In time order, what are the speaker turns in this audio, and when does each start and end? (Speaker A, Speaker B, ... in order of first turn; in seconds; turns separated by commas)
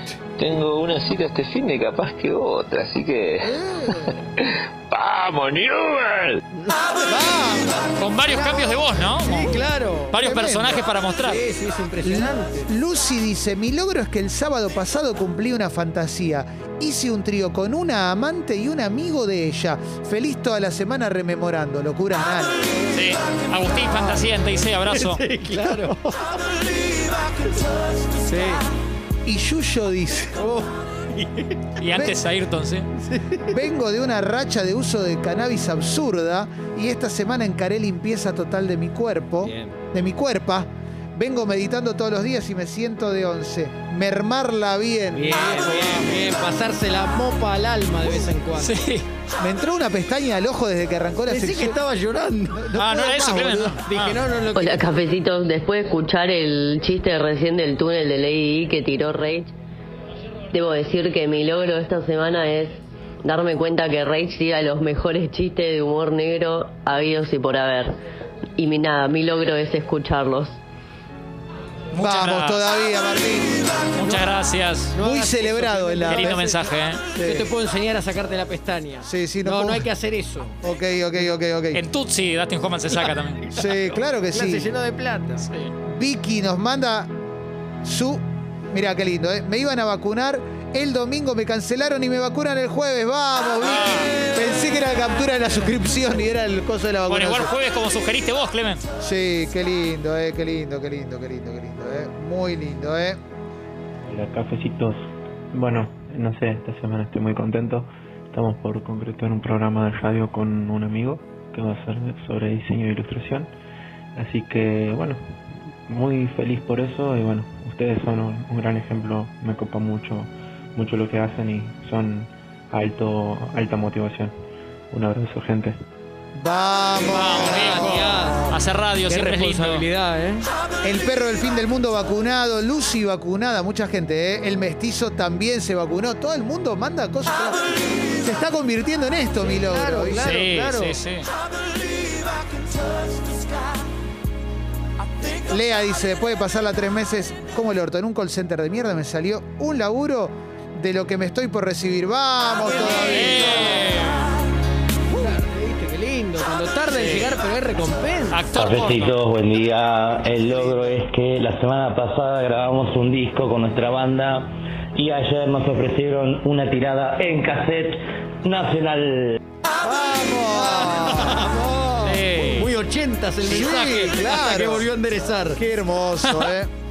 Speaker A: 0.4-3.5, Speaker B: 3.4-4.2, Speaker A: 4.5-6.4, Speaker C: 6.6-7.2, Speaker B: 7.1-7.8, Speaker D: 8.0-11.4, Speaker C: 8.2-10.2, Speaker B: 10.1-10.8, Speaker C: 11.2-12.7, Speaker B: 12.0-22.7, Speaker D: 22.9-25.2, Speaker B: 23.9-24.3, Speaker C: 24.8-26.3, Speaker C: 28.2-28.7, Speaker B: 29.2-30.4, Speaker C: 30.3-31.6, Speaker D: 31.8-32.9, Speaker B: 31.9-32.2, Speaker C: 33.0-33.6, Speaker B: 33.5-46.3, Speaker C: 39.4-39.8, Speaker C: 45.1-48.8, Speaker D: 48.6-49.0, Speaker B: 49.4-51.8, Speaker C: 51.3-54.9, Speaker B: 52.8-53.8, Speaker D: 52.8-54.2, Speaker E: 54.5-59.5, Speaker E: 60.5-68.0, Speaker E: 68.6-70.6, Speaker D: 71.9-72.6, Speaker B: 72.0-73.6, Speaker D: 74.0-74.9, Speaker C: 74.0-74.3, Speaker C: 74.9-80.6, Speaker B: 75.0-76.5, Speaker D: 76.1-77.0, Speaker B: 77.2-77.5, Speaker B: 79.0-79.9, Speaker B: 80.6-81.8, Speaker D: 81.7-83.4, Speaker C: 83.0-85.5, Speaker B: 83.5-84.7, Speaker B: 85.9-87.1, Speaker B: 87.8-97.5, Speaker D: 93.6-94.1, Speaker D: 97.1-98.8, Speaker B: 99.0-103.2, Speaker F: 104.0-113.5, Speaker F: 114.2-115.2, Speaker F: 115.9-124.3, Speaker F: 124.9-125.8, Speaker B: 126.3-128.6, Speaker C: 127.0-128.5, Speaker D: 127.1-129.8, Speaker C: 129.1-130.5, Speaker B: 130.8-140.2, Speaker C: 139.4-141.0, Speaker D: 140.2-141.3, Speaker B: 145.5-153.7, Speaker C: 152.6-154.0, Speaker D: 152.8-154.3, Speaker C: 155.1-158.5, Speaker D: 156.9-157.3, Speaker D: 158.3-159.2, Speaker G: 158.5-169.4, Speaker C: 160.5-161.0, Speaker B: 169.8-171.5, Speaker C: 170.4-175.6, Speaker D: 172.0-172.7, Speaker D: 173.4-174.1, Speaker B: 173.5-174.9, Speaker B: 175.6-176.7